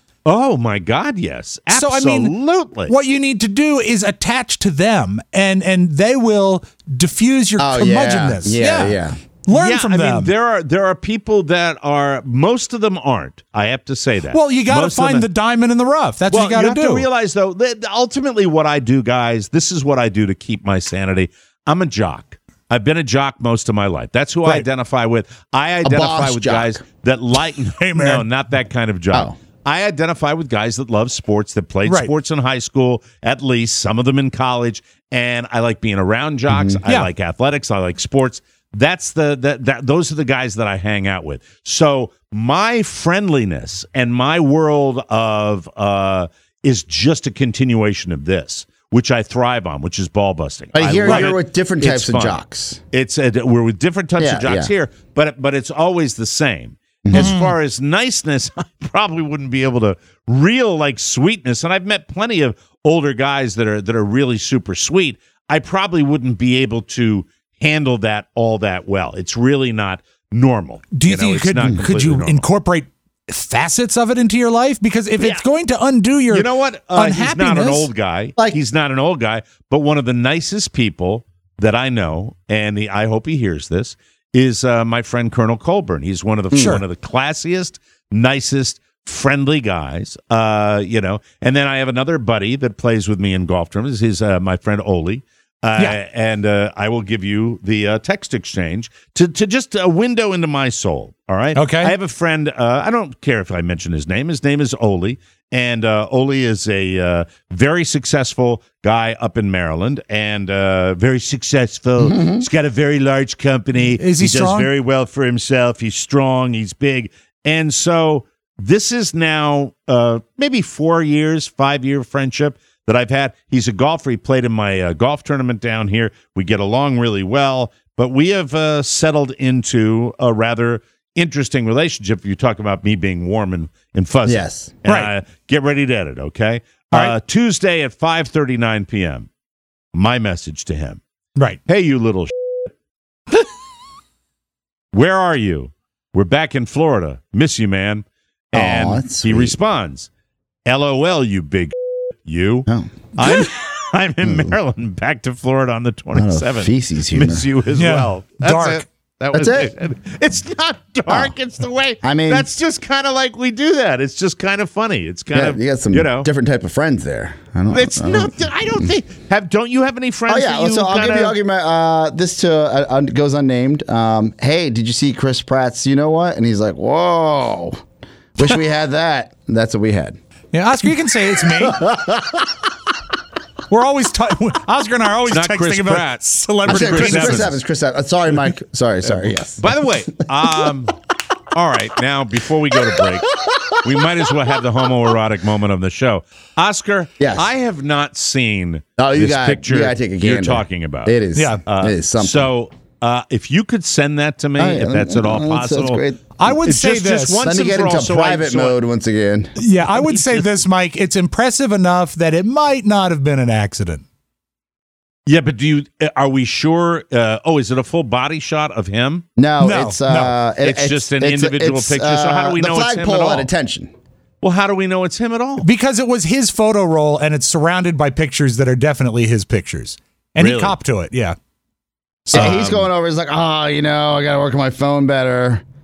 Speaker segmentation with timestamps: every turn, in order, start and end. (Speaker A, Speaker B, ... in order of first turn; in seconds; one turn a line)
Speaker A: 0.2-2.9
Speaker B: 1.7-2.3
Speaker B: 2.9-10.3
Speaker C: 7.6-9.2
Speaker A: 9.5-15.3
Speaker B: 14.3-17.0
Speaker A: 16.3-52.4
Speaker C: 25.8-26.8
Speaker B: 27.8-28.2
Speaker B: 31.9-32.1
Speaker C: 36.5-36.8
Speaker C: 50.7-52.8
Speaker A: 52.9-72.4
Speaker C: 54.2-54.7
Speaker C: 57.0-57.4
Speaker B: 57.1-57.5
Speaker B: 70.9-77.9
Speaker A: 76.3-139.3
Speaker B: 86.5-86.8
Speaker B: 101.5-101.9
Speaker C: 112.0-112.4
Speaker B: 114.0-114.7
Speaker C: 134.2-134.7
Speaker B: 134.8-135.1
Speaker A: 139.9-141.0
Speaker A: 141.7-142.3
Speaker A: 144.9-150.1
Speaker C: 148.5-149.6
Speaker A: 150.7-151.7
Speaker A: 152.2-166.3
Speaker C: 152.7-153.4
Speaker C: 154.2-154.5
Speaker C: 156.1-157.4
Speaker B: 157.8-158.8
Speaker C: 159.3-159.7
Speaker C: 161.1-161.3
Speaker C: 162.0-162.5
Speaker C: 165.3-168.3
Speaker A: 167.7-171.3
Speaker C: 170.3-177.8
Speaker C: 178.3-180.2
Speaker B: 180.5-181.8
Speaker C: 181.6-182.3
Speaker B: 183.7-187.5
Speaker A: 185.3-187.5
Speaker C: 186.7-189.7
Speaker A: 189.6-190.9
Speaker A: 191.5-206.0
Speaker C: 197.2-197.5
Speaker C: 199.0-202.5
Speaker B: 201.3-201.6
Speaker C: 204.6-206.3
Speaker B: 206.4-207.4
Speaker A: 206.6-208.8
Speaker C: 207.4-209.5
Speaker B: 209.6-214.0
Speaker A: 215.3-219.2
Speaker C: 219.4-223.9
Speaker B: 219.6-220.3
Speaker A: 220.6-223.5
Speaker A: 224.4-225.7
Speaker B: 225.6-231.3
Speaker A: 230.4-230.8
Speaker B: 232.3-232.6
Speaker A: 232.3-232.9
Speaker C: 232.3-235.6